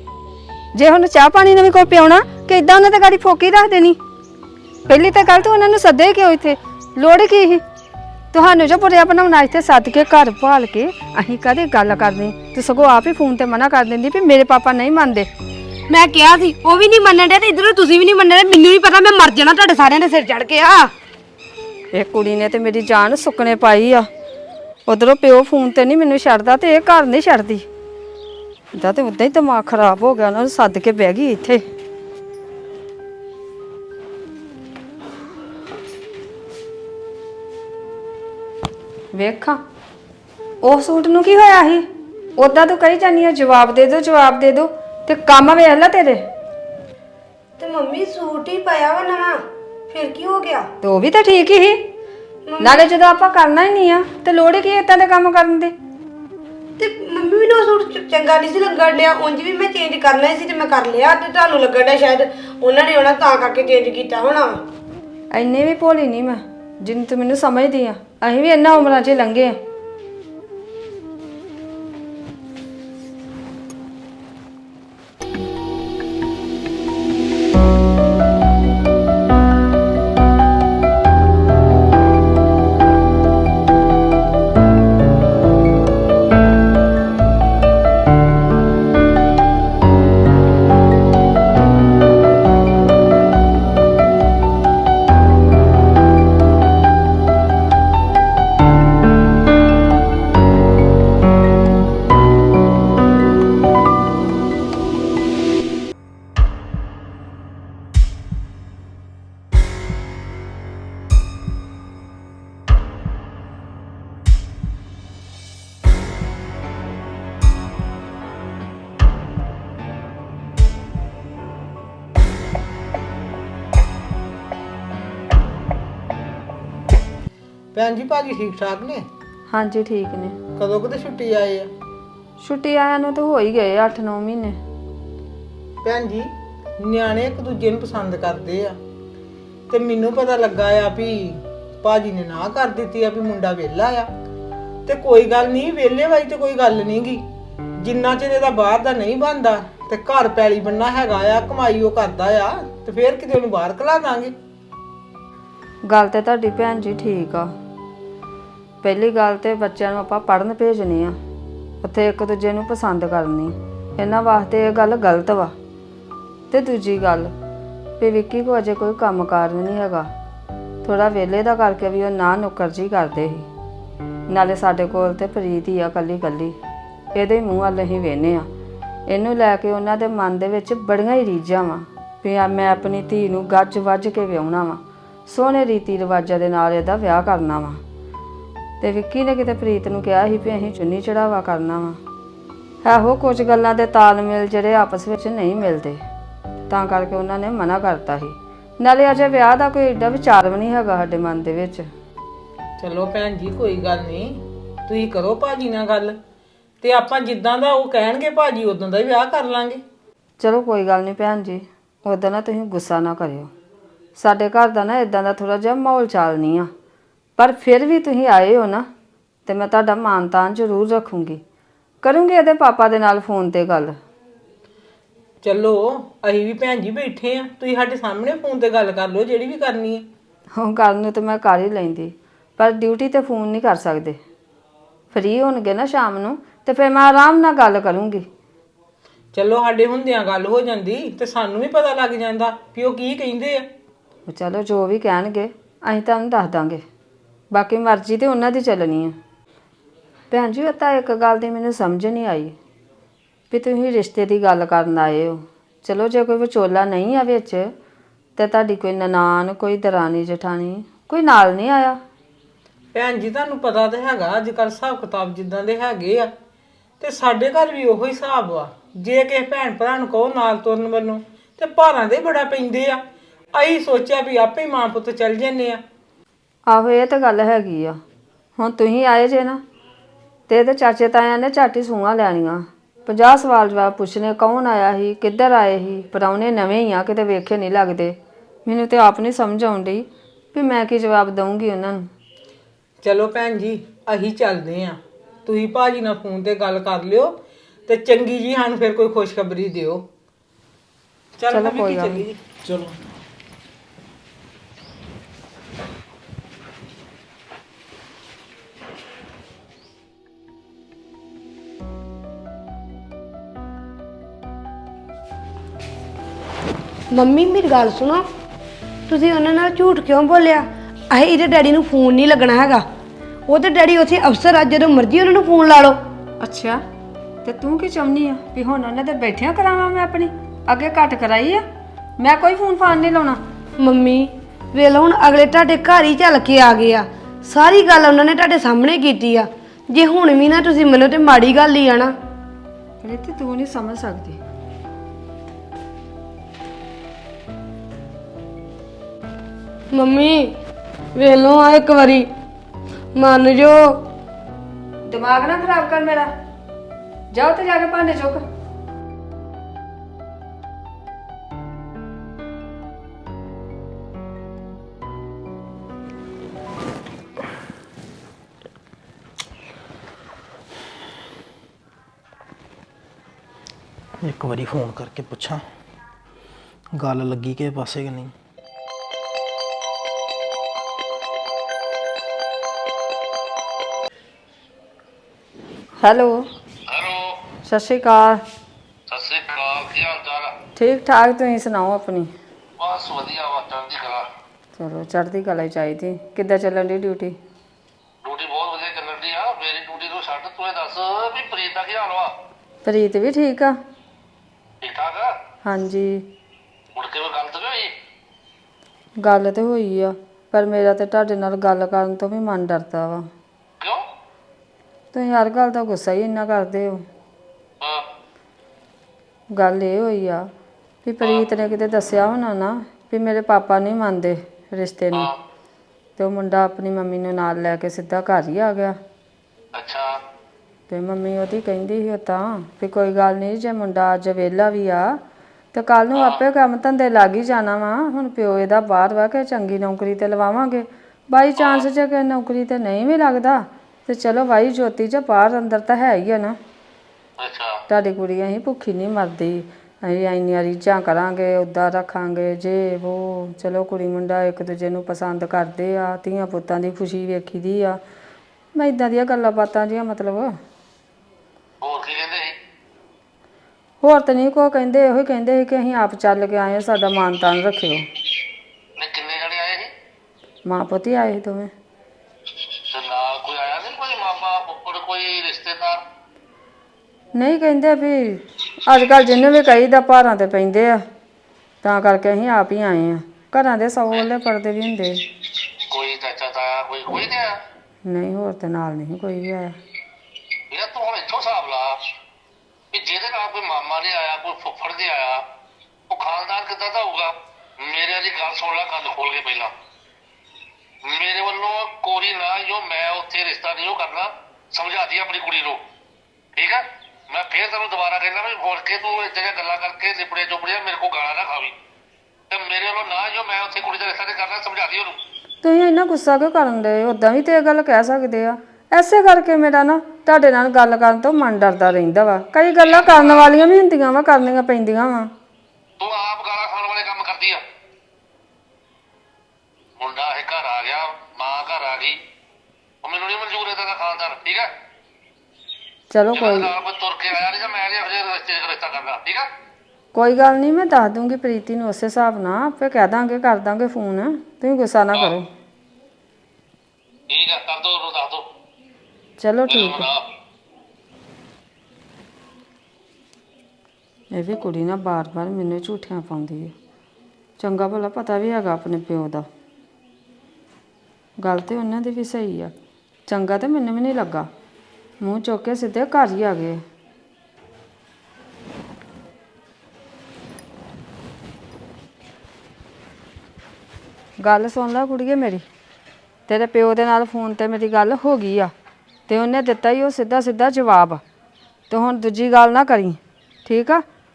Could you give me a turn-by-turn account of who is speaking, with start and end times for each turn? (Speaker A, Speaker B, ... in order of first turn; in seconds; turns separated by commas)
Speaker A: 0.7-4.0, Speaker A: 4.9-7.6, Speaker A: 8.3-15.3, Speaker B: 15.9-20.9, Speaker A: 21.9-24.1, Speaker A: 24.9-27.7, Speaker A: 28.7-31.6, Speaker A: 39.1-39.6, Speaker A: 40.6-41.9, Speaker A: 42.4-46.3, Speaker B: 47.6-50.7, Speaker A: 50.8-51.8, Speaker B: 52.5-52.8, Speaker A: 52.6-55.7, Speaker B: 56.8-64.6, Speaker A: 65.3-69.6, Speaker C: 127.7-129.1, Speaker A: 129.5-130.4, Speaker C: 130.6-131.7, Speaker A: 132.4-134.6, Speaker C: 135.8-138.8, Speaker C: 139.7-144.1, Speaker C: 144.9-147.2, Speaker C: 147.8-154.3, Speaker A: 155.9-157.5, Speaker A: 158.8-161.2, Speaker A: 161.8-165.5, Speaker A: 166.5-167.3, Speaker A: 168.0-170.1, Speaker A: 170.8-173.5, Speaker A: 174.3-176.6, Speaker A: 177.2-178.5, Speaker A: 179.1-187.8, Speaker A: 188.8-192.0, Speaker A: 192.8-196.0, Speaker A: 196.7-201.9, Speaker C: 202.8-206.2, Speaker C: 206.8-209.8, Speaker A: 210.4-213.5, Speaker A: 214.2-216.7, Speaker A: 217.4-218.9, Speaker A: 219.5-221.4, Speaker A: 222.0-224.0, Speaker C: 225.4-230.1, Speaker A: 230.6-234.2, Speaker A: 235.1-238.3, Speaker C: 239.3-243.7, Speaker A: 244.3-246.8, Speaker A: 247.5-249.2, Speaker A: 250.3-252.6, Speaker A: 253.5-257.7, Speaker A: 258.4-262.0, Speaker C: 262.9-266.3, Speaker C: 267.0-273.0, Speaker C: 273.5-275.8, Speaker A: 276.7-278.0, Speaker A: 278.6-279.6, Speaker A: 280.5-292.1, Speaker C: 293.0-297.4, Speaker C: 297.9-300.1, Speaker C: 301.4-302.9, Speaker A: 301.5-302.2, Speaker B: 317.1-318.3, Speaker B: 319.1-322.9, Speaker B: 323.5-326.0, Speaker A: 326.4-326.8, Speaker A: 327.4-331.6, Speaker A: 332.2-333.4, Speaker B: 333.8-342.1, Speaker A: 343.0-344.4, Speaker B: 349.9-350.6, Speaker B: 351.1-352.3, Speaker B: 353.1-354.0, Speaker A: 355.1-356.3, Speaker A: 357.3-358.4, Speaker D: 374.2-375.6, Speaker D: 376.9-378.3, Speaker A: 386.0-386.5, Speaker E: 386.9-387.4, Speaker A: 387.6-388.4, Speaker E: 389.1-390.5, Speaker A: 390.8-392.3, Speaker E: 392.8-394.3, Speaker A: 394.8-397.4, Speaker E: 398.2-402.3, Speaker A: 402.9-403.8, Speaker E: 404.8-405.3, Speaker A: 405.6-406.2, Speaker E: 406.9-407.9, Speaker A: 409.2-413.3, Speaker A: 415.1-417.1, Speaker A: 419.5-420.5, Speaker A: 421.1-425.3, Speaker A: 426.2-429.0, Speaker E: 429.8-430.1, Speaker A: 430.9-435.2, Speaker A: 435.7-446.6, Speaker E: 441.6-441.9, Speaker E: 447.4-447.8, Speaker A: 447.9-458.0, Speaker A: 458.8-460.6, Speaker E: 461.8-462.5, Speaker A: 464.0-468.1, Speaker E: 469.0-469.9, Speaker A: 470.7-471.7, Speaker E: 472.9-476.0, Speaker A: 477.4-481.0, Speaker A: 481.8-485.2, Speaker E: 485.9-487.6, Speaker A: 488.1-489.8, Speaker E: 490.7-492.0, Speaker E: 492.9-495.4, Speaker E: 496.1-499.7, Speaker E: 501.0-505.8, Speaker E: 506.6-511.7, Speaker E: 512.5-515.2, Speaker A: 515.6-525.3, Speaker E: 522.8-523.6, Speaker E: 526.0-527.6, Speaker E: 530.0-532.2, Speaker E: 533.0-534.7, Speaker A: 536.1-536.7, Speaker E: 536.3-539.5, Speaker A: 540.1-545.5, Speaker E: 547.3-548.5, Speaker A: 549.4-550.1, Speaker E: 549.7-550.2, Speaker A: 554.3-556.8, Speaker A: 557.6-559.5, Speaker A: 561.4-562.7, Speaker A: 563.3-564.5, Speaker A: 565.2-566.8, Speaker A: 574.4-575.6, Speaker A: 576.5-578.7, Speaker A: 579.3-581.2, Speaker A: 581.9-584.0